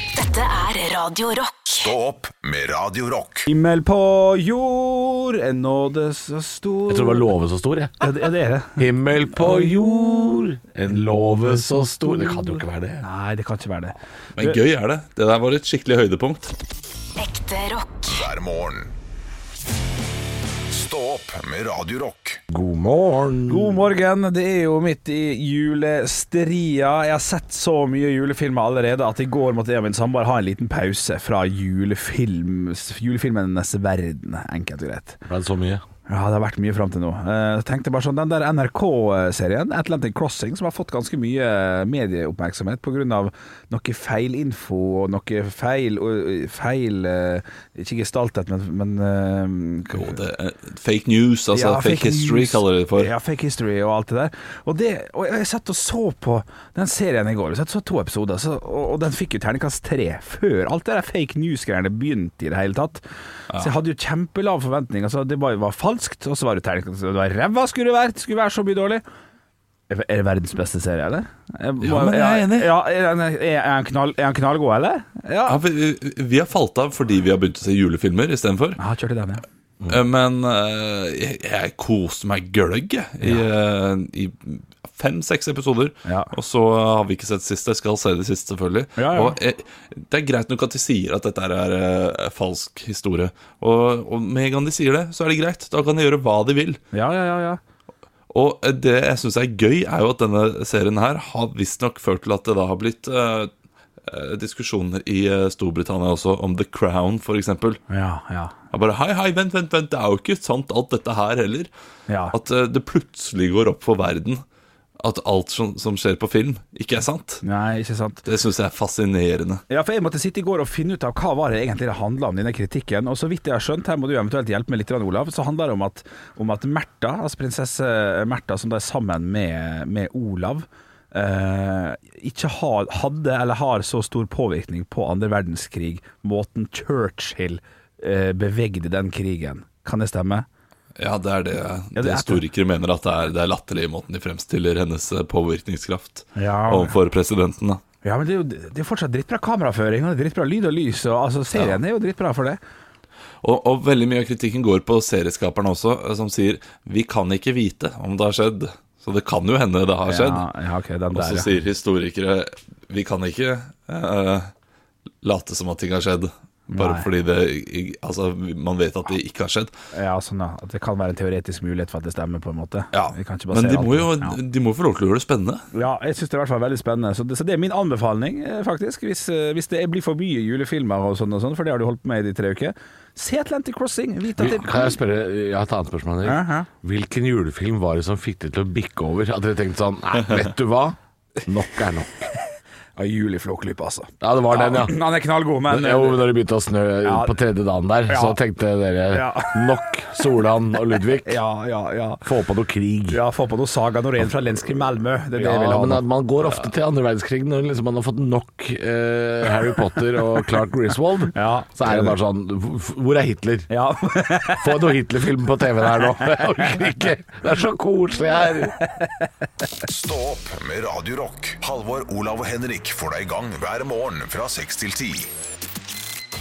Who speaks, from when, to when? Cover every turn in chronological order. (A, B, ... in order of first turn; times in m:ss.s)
0:00.2-0:01.6 A
0:01.7-0:03.5 B
0:03.5-0:07.3 C
0:06.9-0:08.0 D
0:08.0-0:14.6 C
0:08.8-0:13.0 D
0:14.4-0:16.5 E
0:17.2-0:18.0 A
0:18.0-0:18.9 B
0:20.7-0:22.4 B
0:22.5-0:23.9 D
0:23.5-0:35.2 C
0:35.3-0:35.8 D
0:36.1-0:50.2 C
0:49.9-0:53.1 E
0:51.5-1:03.0 C
1:03.5-1:09.0 C
1:09.9-1:15.6 C
1:11.8-1:12.8 E
1:15.4-1:18.8 E
1:18.8-1:19.4 C
1:19.9-1:36.8 E
1:26.0-1:26.3 C
1:29.0-1:29.4 C
1:36.9-1:37.6 C
1:38.3-1:43.5 E
1:44.1-1:47.8 E
1:47.9-1:48.6 C
1:48.7-1:51.7 E
1:52.1-1:52.3 C
1:52.3-1:54.4 E
1:55.0-1:57.4 E
1:57.4-1:58.2 C
1:58.2-1:59.6 E
1:59.7-2:20.4 C
2:21.0-2:27.8 E
2:21.9-2:22.4 C
2:26.3-2:27.0 C
2:28.0-2:32.6 C
2:33.4-2:40.4 E
2:40.1-2:41.5 C
2:41.1-2:44.5 E
2:45.2-2:49.7 E
2:46.7-2:47.1 C
2:49.9-2:54.4 C
2:52.9-2:55.6 E
2:55.7-3:05.0 C
3:04.4-3:12.3 D
3:06.2-3:06.7 C
3:13.0-3:16.3 C
3:14.2-3:15.0 D
3:15.7-3:21.4 D
3:17.0-3:17.4 C
3:18.1-3:18.4 C
3:19.1-3:19.7 C
3:20.9-3:22.2 C
3:22.2-3:23.2 D
3:23.1-3:26.1 C
3:25.3-3:33.7 D
3:31.3-3:32.2 C
3:33.7-3:34.9 C
3:34.6-3:38.8 D
3:35.8-3:37.0 C
3:38.8-3:39.7 C
3:39.9-3:45.3 B